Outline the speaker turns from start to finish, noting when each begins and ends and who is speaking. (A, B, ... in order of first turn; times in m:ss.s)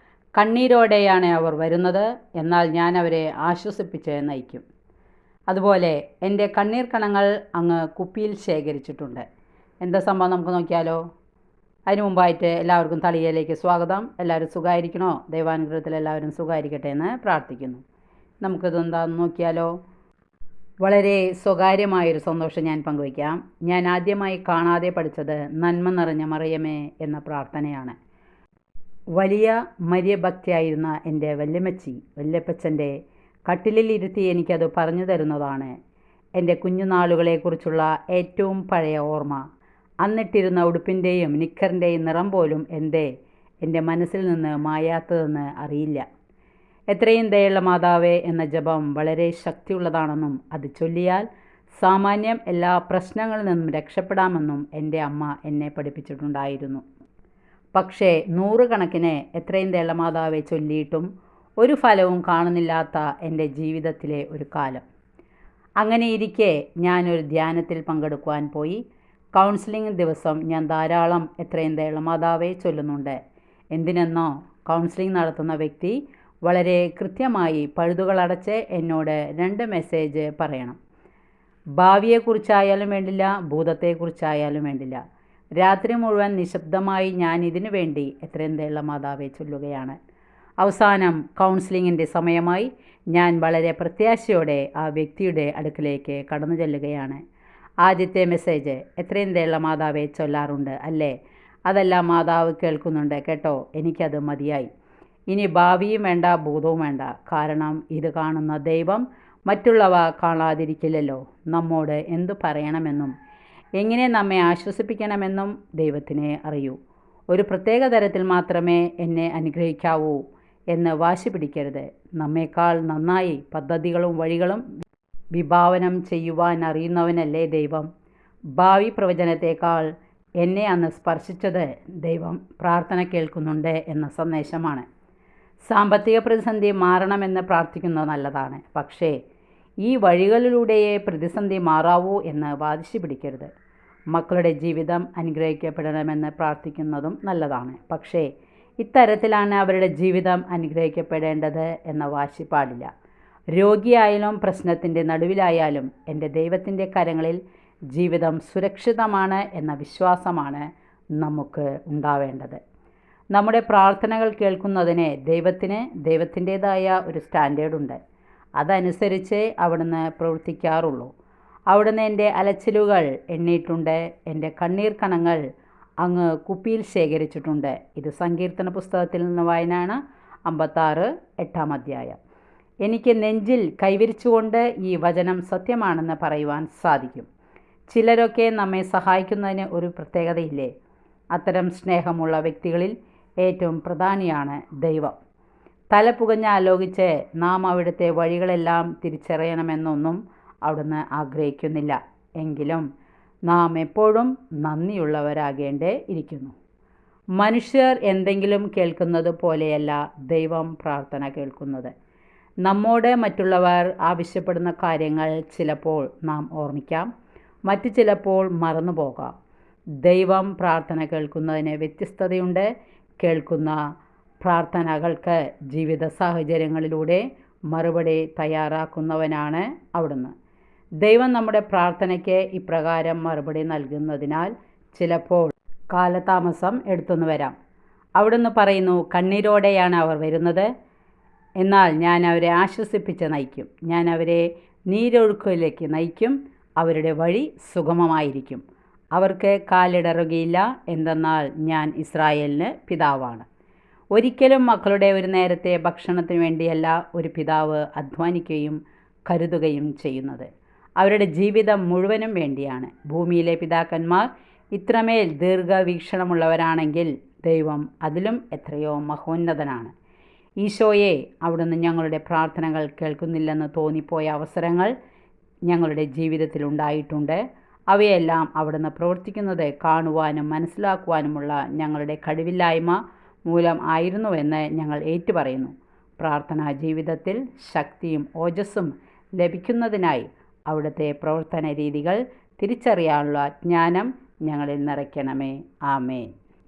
0:00.4-0:04.6 A
0:05.5-0:09.2 A
0:09.8-0:11.0 A
0:11.9-0:17.8 A
0:18.4-0:19.7 A
0:20.8-0:28.0 A
0:29.2-0:32.9 A
0:33.5-0:35.7 A
0:36.4-0:39.4 A
0:40.0-0:43.1 A
0:43.6-0:46.0 A
0:46.9-0:51.3 A
0:51.8-0:56.8 A
0:57.7-1:01.1 A
1:01.6-1:04.8 A
1:05.8-1:08.8 A
1:09.4-1:13.2 A
1:13.7-1:20.8 A
1:21.8-1:25.0 A
1:25.6-1:30.0 A
1:30.6-1:37.2 A
1:37.8-1:41.1 A
1:41.7-1:44.7 A
1:45.3-1:53.1 A
1:53.8-1:56.8 A
1:57.3-2:00.2 A
2:00.7-2:04.6 A
2:05.3-2:07.9 A
2:08.6-2:09.9 A
2:10.4-2:14.8 A
2:15.7-2:19.2 A
2:19.8-2:23.5 A
2:24.1-2:28.3 A
2:28.8-2:32.9 A
2:33.5-2:37.4 A
2:37.9-2:40.6 A
2:41.2-2:42.6 A
2:43.3-2:48.0 A
2:48.6-2:51.1 A
2:51.7-2:55.4 A
2:56.0-3:02.2 A
3:02.8-3:07.3 A
3:07.9-3:10.7 A
3:11.3-3:15.2 A
3:15.9-3:22.8 A
3:23.5-3:26.5 A
3:27.4-3:31.9 A
3:32.6-3:37.1 A
3:37.7-3:39.4 A
3:40.0-3:42.7 A
3:43.2-3:43.8 A
3:44.4-3:50.3 A
3:51.0-3:57.6 A
3:58.2-4:00.7 A
4:01.6-4:08.6 A
4:09.1-4:13.4 A
4:14.1-4:20.5 A
4:21.0-4:29.9 A
4:30.6-4:34.9 A
4:35.7-4:56.3 A